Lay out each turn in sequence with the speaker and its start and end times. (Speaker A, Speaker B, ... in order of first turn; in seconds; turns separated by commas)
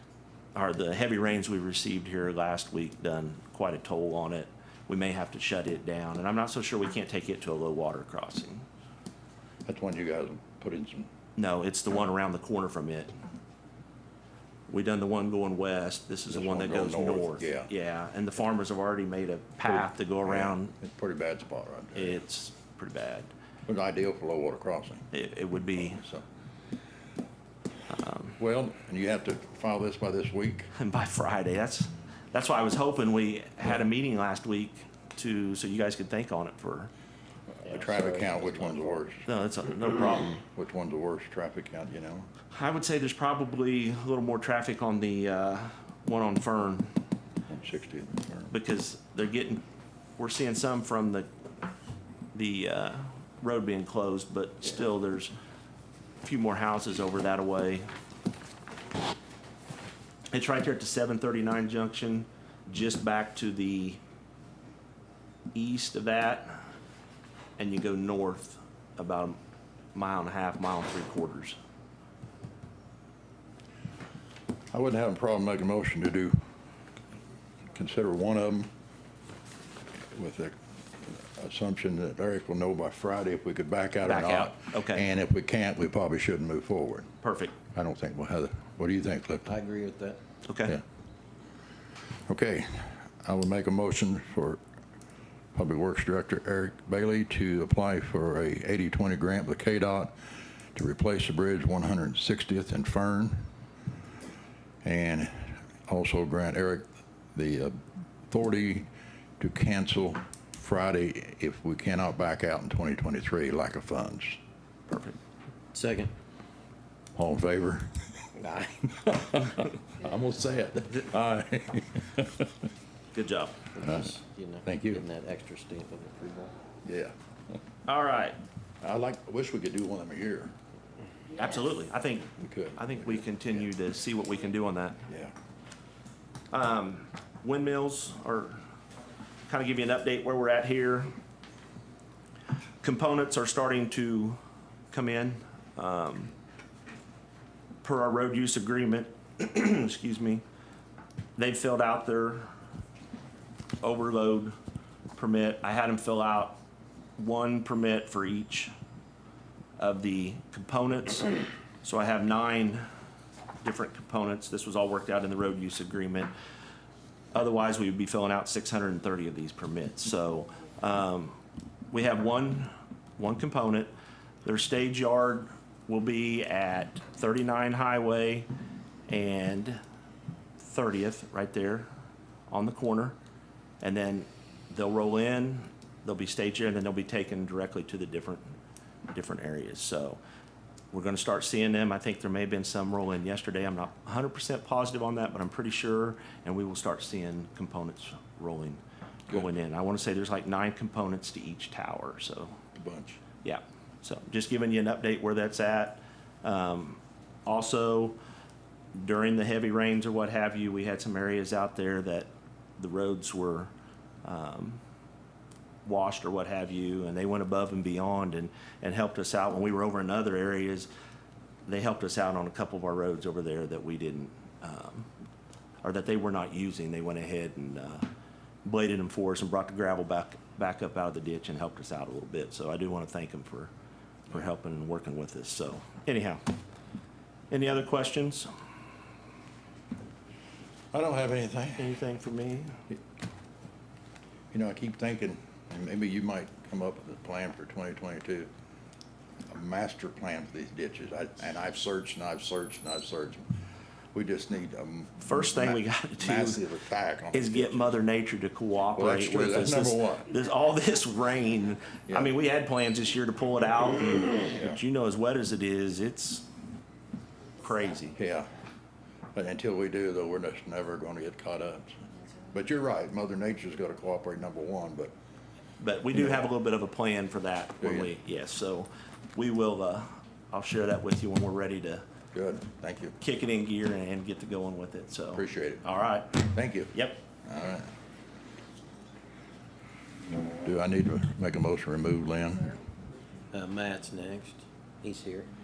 Speaker A: 0.6-8.7, Speaker B: 9.7-11.1, Speaker A: 11.4-13.1, Speaker A: 14.7-20.8, Speaker B: 16.3-17.7, Speaker B: 20.2-22.2, Speaker A: 21.9-23.3, Speaker B: 23.7-25.1, Speaker A: 25.1-26.0, Speaker B: 25.7-26.2, Speaker A: 27.9-28.4, Speaker B: 28.4-30.7, Speaker A: 30.8-36.9, Speaker C: 37.6-39.1, Speaker B: 37.6-39.3, Speaker A: 39.2-40.4, Speaker B: 40.4-42.3, Speaker A: 42.5-47.0, Speaker B: 47.5-48.5, Speaker A: 48.5-49.6, Speaker A: 50.2-51.3, Speaker A: 52.3-55.3, Speaker A: 56.2-57.9, Speaker A: 60.3-64.0, Speaker A: 65.5-66.6, Speaker A: 67.6-69.4, Speaker A: 69.9-71.6, Speaker B: 74.7-76.4, Speaker B: 77.7-78.7, Speaker B: 80.1-87.1, Speaker A: 84.0-85.1, Speaker A: 87.2-87.6, Speaker B: 87.7-89.5, Speaker C: 89.5-90.2, Speaker A: 90.5-90.8, Speaker B: 92.3-94.6, Speaker B: 95.5-100.2, Speaker B: 100.8-103.5, Speaker B: 104.8-107.8, Speaker B: 108.3-108.9, Speaker B: 109.4-114.4, Speaker A: 114.9-115.2, Speaker C: 115.7-116.1, Speaker B: 117.2-118.3, Speaker C: 118.4-118.9, Speaker B: 118.9-122.5, Speaker A: 123.1-123.6, Speaker C: 123.7-126.5, Speaker B: 123.8-125.0, Speaker B: 126.8-127.1, Speaker A: 127.9-128.4, Speaker B: 128.8-130.5, Speaker A: 131.4-135.0, Speaker B: 132.4-133.4, Speaker B: 135.1-135.3, Speaker A: 136.5-138.6, Speaker A: 139.5-141.1, Speaker A: 142.8-144.4, Speaker A: 144.9-146.3, Speaker A: 147.8-150.4, Speaker A: 151.4-152.5, Speaker A: 153.8-154.6, Speaker A: 155.2-156.6, Speaker A: 157.2-158.7, Speaker A: 159.8-162.9, Speaker A: 163.6-166.3, Speaker A: 167.3-171.4, Speaker A: 171.9-173.9, Speaker A: 174.4-178.5, Speaker A: 179.1-179.8, Speaker A: 180.6-181.9, Speaker A: 182.5-183.2, Speaker A: 183.8-188.6, Speaker A: 189.1-190.2, Speaker A: 190.9-202.6, Speaker B: 202.8-203.2, Speaker A: 203.4-208.2, Speaker A: 208.9-213.7, Speaker A: 214.2-214.8, Speaker A: 215.8-220.9, Speaker A: 221.7-225.1, Speaker A: 225.8-228.1, Speaker A: 228.6-233.7, Speaker A: 234.3-236.4, Speaker A: 237.5-238.5, Speaker B: 240.9-241.9, Speaker A: 241.8-242.8, Speaker B: 244.5-248.5, Speaker B: 249.5-253.5, Speaker B: 254.1-258.0, Speaker A: 255.2-256.6, Speaker A: 257.3-266.5, Speaker B: 259.0-260.3, Speaker A: 267.6-268.2, Speaker B: 268.1-268.5, Speaker B: 269.4-275.1, Speaker A: 275.8-282.0, Speaker B: 277.8-278.1, Speaker B: 282.3-283.2, Speaker A: 283.2-287.2, Speaker B: 285.3-285.8, Speaker B: 286.4-286.9, Speaker B: 287.4-287.9, Speaker B: 290.6-292.7, Speaker C: 293.5-295.5